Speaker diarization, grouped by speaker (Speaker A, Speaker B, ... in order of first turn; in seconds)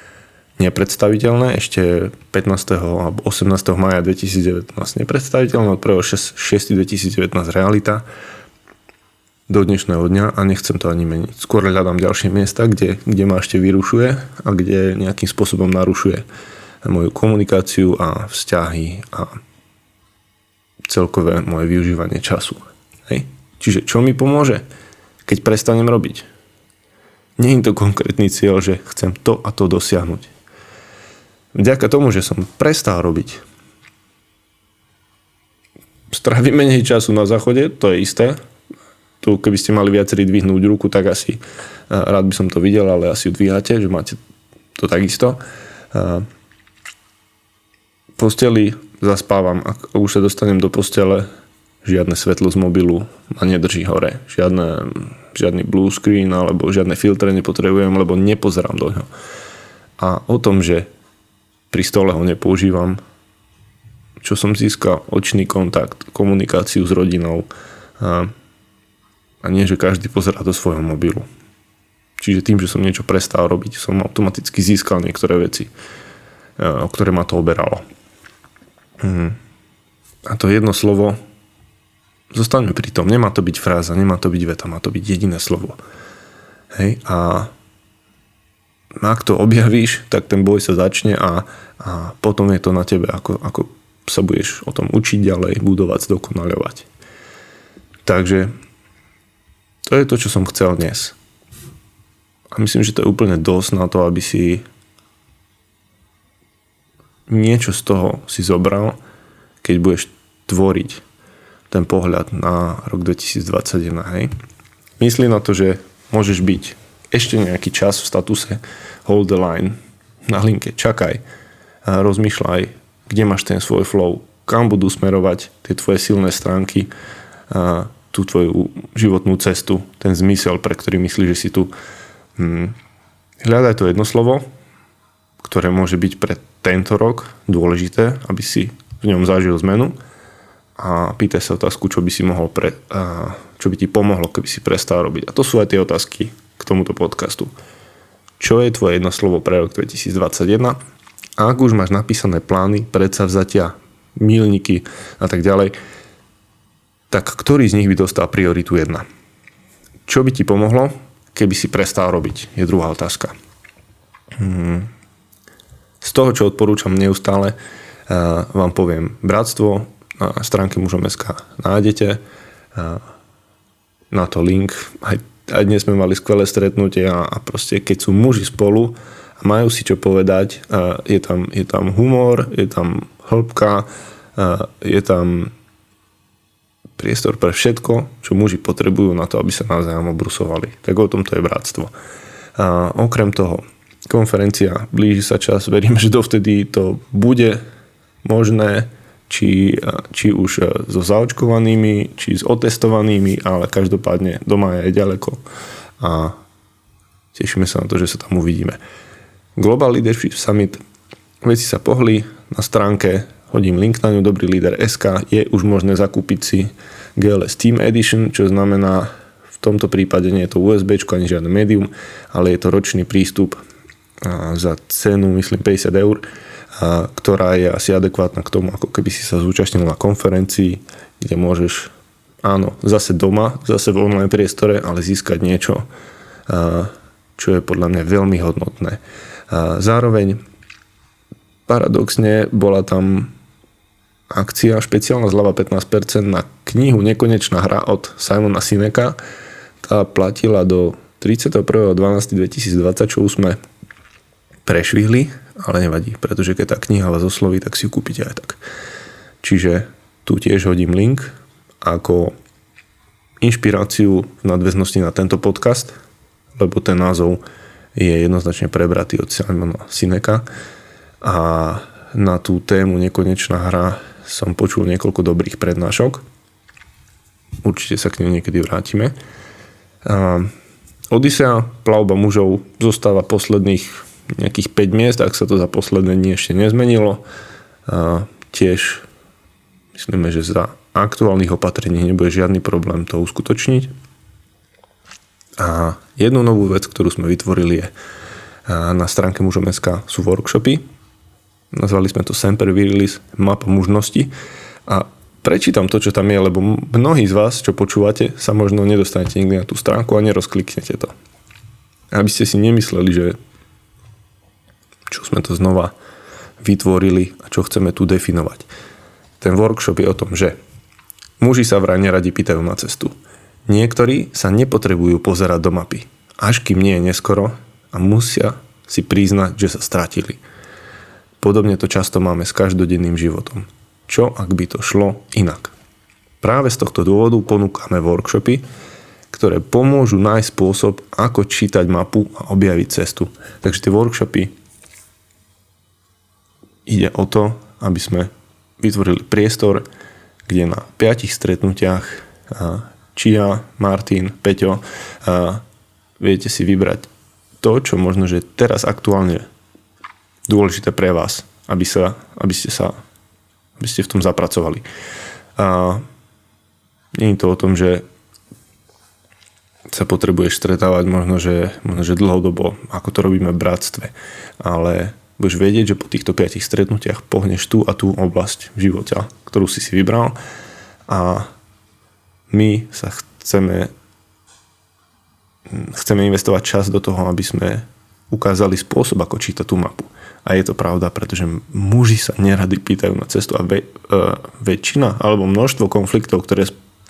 Speaker A: 0.6-8.1, 9.5-16.2, 16.8-19.4, 20.9-24.6, 25.2-26.3, 27.4-30.3, 31.5-33.4, 36.1-38.4, 39.2-44.2, 44.8-45.4, 45.9-46.3, 48.2-51.3, 51.8-59.1, 60.0-60.9, 61.7-63.0, 64.2-68.3, 69.4-71.3, 72.2-75.7, 76.6-77.8, 79.0-79.4, 80.3-81.2, 82.3-85.8, 86.7-87.5, 89.0-96.9, 98.0-98.5, 99.9-101.2, 102.5-104.6, 107.3-109.0, 109.6-111.0, 111.7-114.3, 115.0-121.2, 121.8-126.9, 127.5-131.7, 132.4-132.8, 133.4-134.5, 135.4-140.0, 140.8-147.5, 148.4-150.8, 151.4-155.8, 157.1-159.1, 160.1-163.3, 164.4-164.9, 166.0-167.6, 168.1-172.2, 172.8-173.0, 174.1-185.5, 187.0-191.9, 192.6-197.6, 198.2-205.4, 206.0-206.4, 207.3-208.8, 209.6-210.8, 211.4-223.6, 224.2-226.2, 226.8-231.9, 232.4-235.9, 236.5-240.4, 241.7-243.3, 244.3-249.2, 249.8-253.6, 254.7-258.6, 259.4-262.4, 263.4-266.0, 266.6-267.4, 267.9-270.5, 271.2-276.2, 277.6-279.1, 280.1-280.5, 281.1-287.2, 287.9-289.1, 289.9-293.9, 295.6-297.9, 298.7-300.8, 301.7-304.3, 304.9-311.1, 312.1-313.4, 315.1-315.9, 316.6-318.7, 319.4-320.6, 321.4-323.1, 323.7-330.4, 331.4-335.8, 336.4-338.6, 339.3-344.5, 346.9-349.9, 350.5-355.6, 356.2-357.1, 357.6-359.5, 360.5-362.9, 363.8-364.9, 365.6-366.1, 367.1-368.1, 369.9-380.4, 381.1-381.5, 382.5-383.9, 385.7-396.7